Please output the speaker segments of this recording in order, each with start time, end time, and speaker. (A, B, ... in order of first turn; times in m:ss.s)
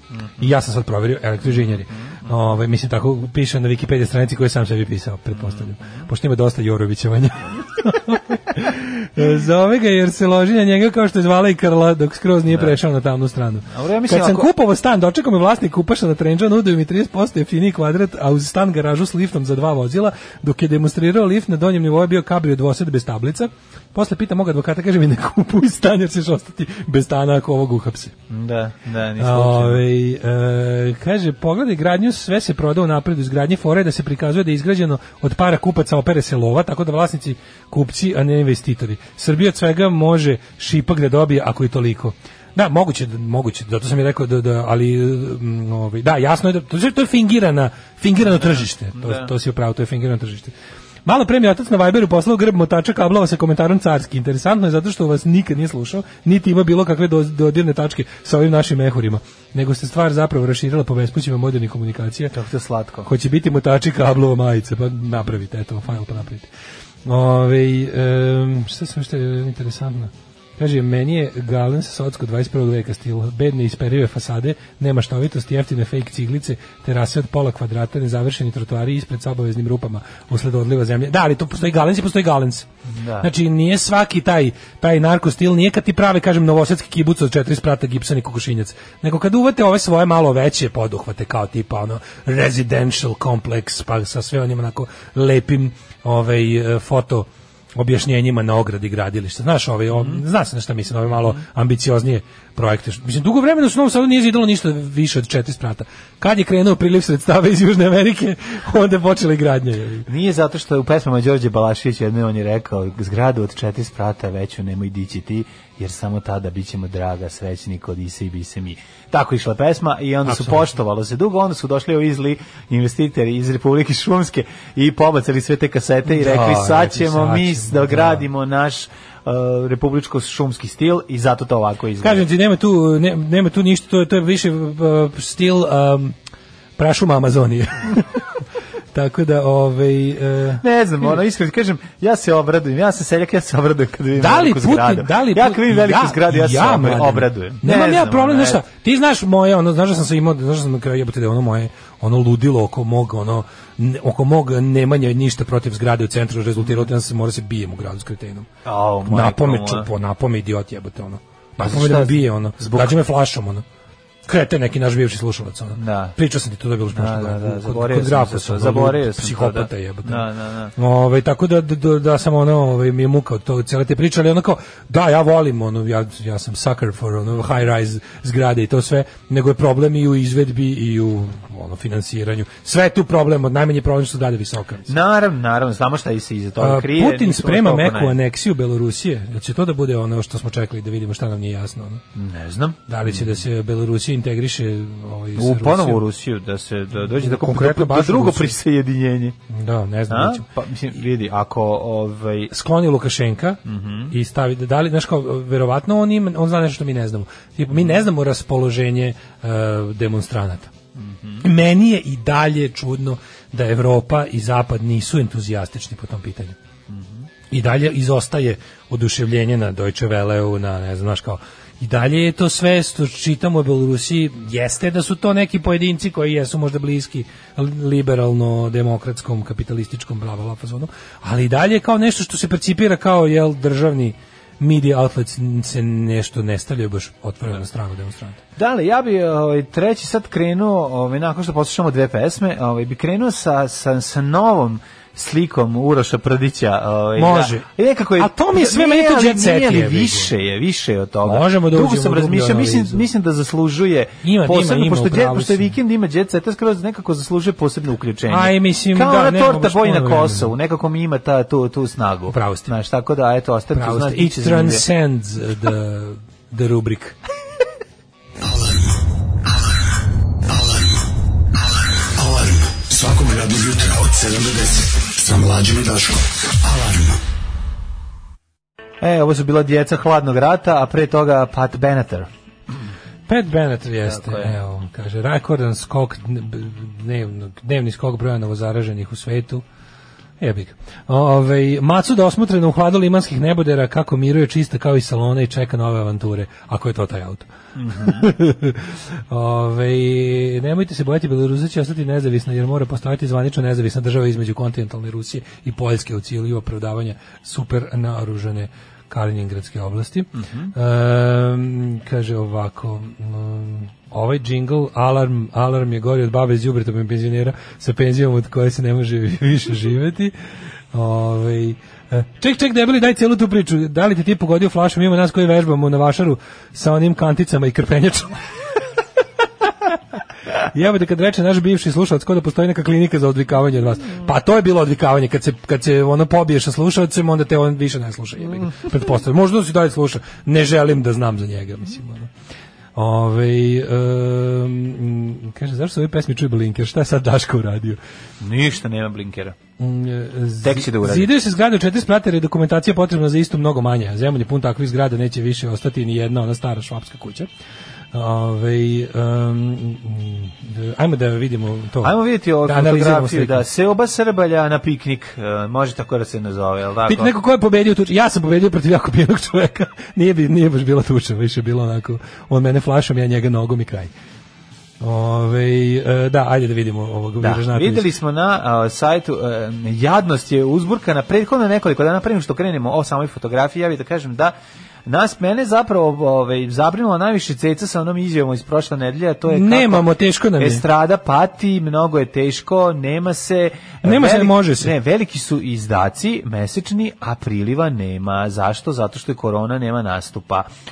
0:00.2-0:00.4 A
0:00.4-0:28.2 B
0:01.4-0:02.3 A
0:05.3-0:06.0 A
0:12.5-0:12.8 A
0:13.7-0:14.5 A
0:28.3-0:29.8 A
0:29.2-0:50.5 B
0:49.0-0:49.3 A
0:51.1-1:02.4 B
1:02.3-1:03.1 A
1:03.0-1:06.5 B
1:07.0-1:22.7 B
1:22.9-1:23.3 A
1:23.2-1:50.1 B
1:40.0-1:40.2 A
1:50.1-2:12.2 A
2:00.2-2:00.7 B
2:06.1-2:08.3 B
2:12.0-2:16.2 B
2:16.8-2:18.1 B
2:18.9-2:20.6 B
2:20.6-2:28.6 A
2:24.2-2:38.5 B
2:38.6-2:39.9 A
2:39.1-2:43.6 B
2:41.6-2:43.0 A
2:44.3-2:50.2 B
2:45.8-2:46.2 A
2:46.9-2:50.7 A
2:50.8-3:04.9 B
3:04.9-3:08.2 A
3:06.6-3:12.0 B
3:12.2-3:13.4 A
3:12.9-3:16.0 B
3:15.4-3:19.4 A
3:17.1-3:18.6 B
3:19.5-3:20.4 B
3:20.1-3:22.5 A
3:22.5-3:30.7 B
3:23.6-3:24.1 A
3:27.7-3:28.0 A
3:31.0-3:31.4 A
3:31.4-3:36.6 B
3:36.9-3:37.2 A
3:37.5-3:58.4 B
3:58.6-4:24.8 A
4:07.2-4:10.3 B
4:11.2-4:13.1 B
4:14.2-4:15.7 B
4:18.3-4:20.5 B
4:22.3-4:22.7 B
4:23.7-4:27.2 B
4:28.4-4:37.2 C
4:39.0-4:42.3 A
4:43.3-4:49.6 B
4:44.1-4:44.5 A
4:50.4-5:20.3 B
4:57.8-4:58.3 A
5:10.4-5:10.7 A
5:20.9-5:28.4 B
5:30.6-5:42.3 B
5:43.0-5:48.0 B
5:48.4-5:49.6 A
5:49.8-5:57.5 B
5:50.6-5:51.3 A
5:58.1-6:03.6 B
6:02.0-6:07.3 A
6:07.1-6:14.1 B
6:15.0-6:18.1 B
6:17.4-6:24.6 A
6:25.1-6:40.7 A
6:29.5-6:30.8 B
6:34.0-6:34.9 B